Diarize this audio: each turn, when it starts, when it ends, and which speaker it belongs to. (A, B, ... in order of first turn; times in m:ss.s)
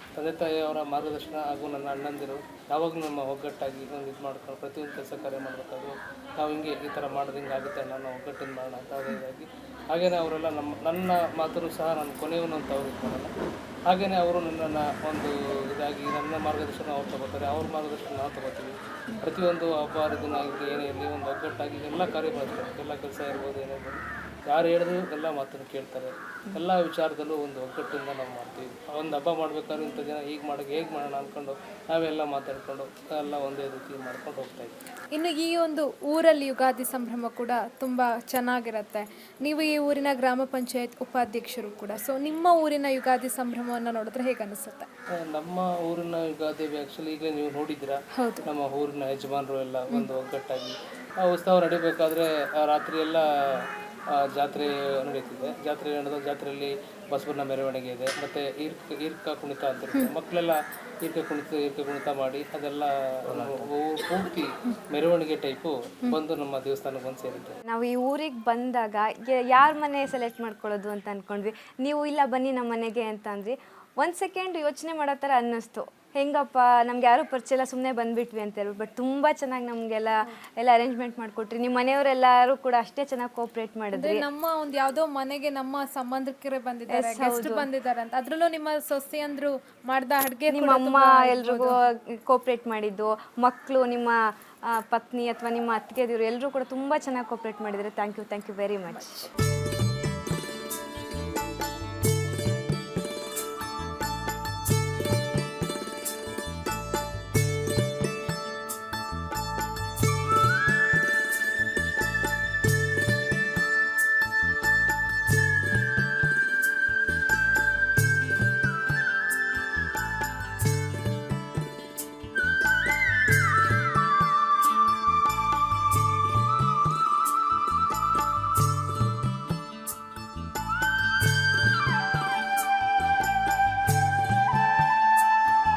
0:00.2-0:13.3 A
0:13.9-0:34.7 A
0:35.1-0:44.9 B
0:45.2-0:53.7 A
0:48.1-0:48.5 B
0:54.3-1:07.6 A
1:07.7-1:24.2 C
1:23.9-1:31.8 B
1:27.0-1:27.7 C
1:30.5-1:34.2 C
1:34.7-1:39.3 C